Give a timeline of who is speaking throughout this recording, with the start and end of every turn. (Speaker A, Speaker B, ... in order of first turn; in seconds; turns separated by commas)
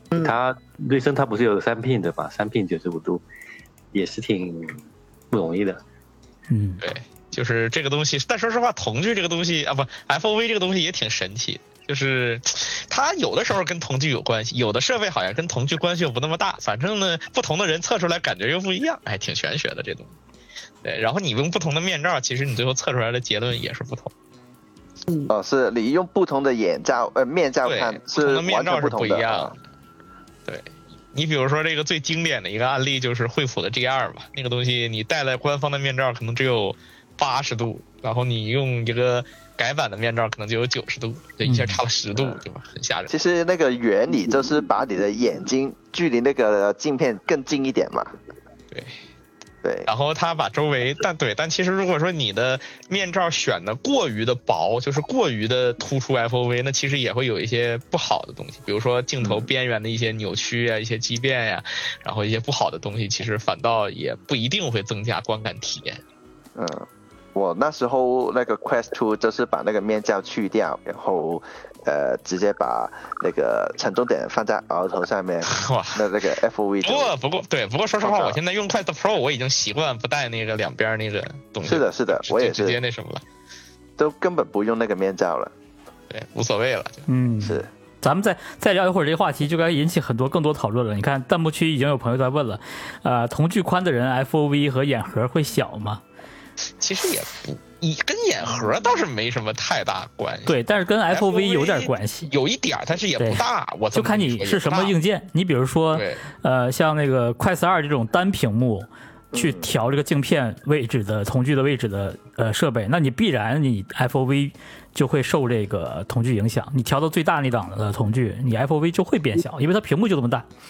Speaker A: 0.1-3.2, Speaker A: 3.9-5.8, Speaker B: 6.5-6.8, Speaker C: 6.8-20.1, Speaker C: 20.8-24.1, Speaker D: 25.3-29.5, Speaker C: 27.6-29.6, Speaker C: 30.5-43.1, Speaker B: 41.5-41.8, Speaker D: 43.1-48.1, Speaker C: 48.7-49.0, Speaker D: 49.6-49.9, Speaker C: 49.9-66.0, Speaker D: 59.2-59.5, Speaker D: 66.6-77.1, Speaker C: 75.5-76.1, Speaker C: 76.8-83.2, Speaker D: 78.0-78.4, Speaker D: 81.7-82.8, Speaker D: 84.0-85.5, Speaker C: 86.1-87.0, Speaker B: 87.1-96.0, Speaker D: 87.4-87.7, Speaker C: 96.8-100.6, Speaker B: 100.5-102.3, Speaker C: 101.1-105.0, Speaker B: 103.2-120.5, Speaker C: 105.9-106.2, Speaker D: 109.3-109.7